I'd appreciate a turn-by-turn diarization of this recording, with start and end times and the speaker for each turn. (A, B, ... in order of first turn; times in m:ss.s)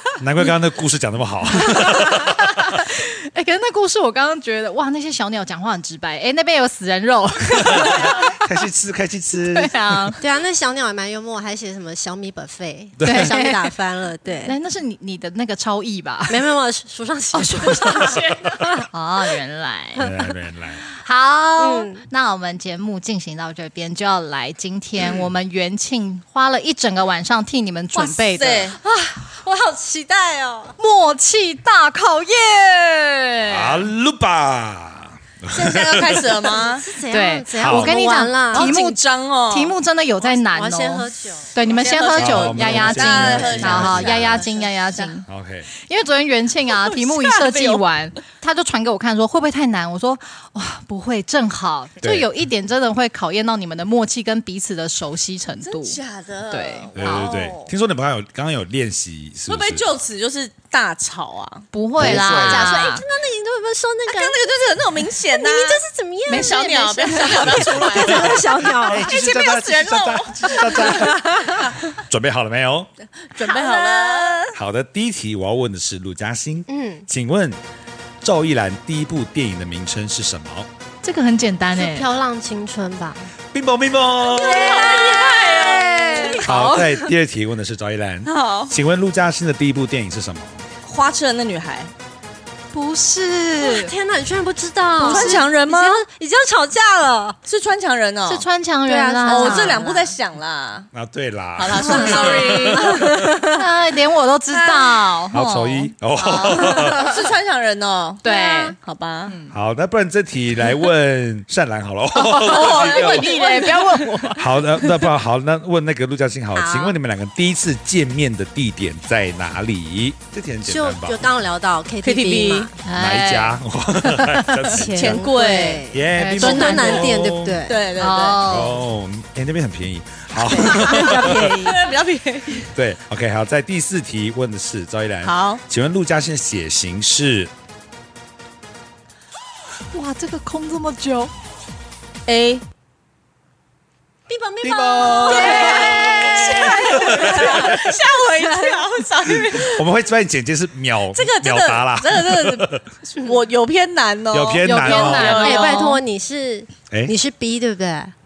0:00.2-0:02.5 A
0:01.5-0:08.5 B
0:07.7-0:10.1 A
0:09.4-0:10.2 B
0:10.2-0:14.6 C
0:13.0-0:13.3 A
0:13.0-0:13.7 B
0:14.4-0:16.5 B
0:16.3-0:18.9 C
0:17.4-0:20.1 B
0:20.0-0:20.8 A
0:20.9-0:28.7 B
0:21.6-0:22.0 C
0:27.9-0:28.8 D
0:28.8-0:30.8 C
0:30.8-0:33.9 B
0:33.4-0:36.4 A
0:35.5-0:36.9 D
0:36.7-0:38.8 C
0:37.1-0:57.3 B
0:37.6-0:37.9 A
0:38.5-0:39.8 D
0:40.2-0:42.1 C
0:41.6-0:45.2 D
0:42.2-0:44.4 A
0:43.6-0:44.4 C
0:45.3-0:45.7 A
0:46.8-0:47.8 D
0:52.0-0:52.3 A
0:55.6-0:57.7 D
0:57.0-0:59.8 A
0:59.5-1:01.7 D
1:01.7-1:03.0 B
1:02.0-1:02.8 A
1:02.0-1:04.7 C
1:04.1-1:11.1 D
1:05.3-1:09.2 C
1:06.3-1:07.7 B
1:08.2-1:12.9 A
1:10.7-1:11.7 C
1:13.2-1:14.6 D
1:13.4-1:14.4 C
1:14.5-1:17.6 A
1:16.7-1:17.1 C
1:18.2-1:20.7 A
1:21.0-1:22.1 B
1:21.8-1:23.3 C
1:23.5-1:24.6 A
1:24.2-1:27.1 C
1:24.2-1:26.4 D
1:24.8-1:26.8 B
1:26.4-1:30.6 A
1:28.2-1:28.8 D
1:30.8-1:31.9 D
1:32.7-1:33.9 B
1:33.6-1:37.4 C
1:35.0-1:35.4 B
1:35.0-1:36.0 D
1:37.5-1:38.4 D
1:38.3-1:39.8 B
1:38.9-1:40.2 C
1:39.3-1:40.9 D
1:40.9-1:43.2 A
1:41.6-1:43.1 D
1:41.8-1:43.6 C
1:43.5-1:47.2 B
1:44.5-1:45.2 D
1:45.3-1:47.2 A
1:46.5-1:49.4 D
1:48.2-1:48.8 B
1:49.3-1:49.5 B
1:49.5-1:53.3 A
1:52.1-1:54.5 B
1:52.3-1:54.4 D
1:54.4-2:01.3 A
1:56.5-1:57.0 C
2:00.7-2:02.8 C
2:02.0-2:02.7 D
2:02.8-2:04.7 B
2:02.9-2:05.3 A
2:04.7-2:07.8 C
2:04.9-2:05.9 D
2:05.9-2:07.6 A
2:06.1-2:07.1 B
2:06.4-2:08.5 D
2:08.0-2:08.8 B
2:08.5-2:11.6 A
2:10.4-2:11.8 C
2:10.4-2:12.7 D
2:12.7-2:17.5 A
2:15.2-2:15.6 D
2:19.9-2:21.3 B
2:22.3-2:22.6 D
2:24.3-2:28.9 C
2:24.6-2:27.7 A
2:25.2-2:29.9 D
2:25.4-2:26.4 B
2:29.6-2:32.8 A
2:31.1-2:36.0 D
2:34.3-2:35.5 A
2:34.6-2:36.0 B
2:35.3-2:38.1 C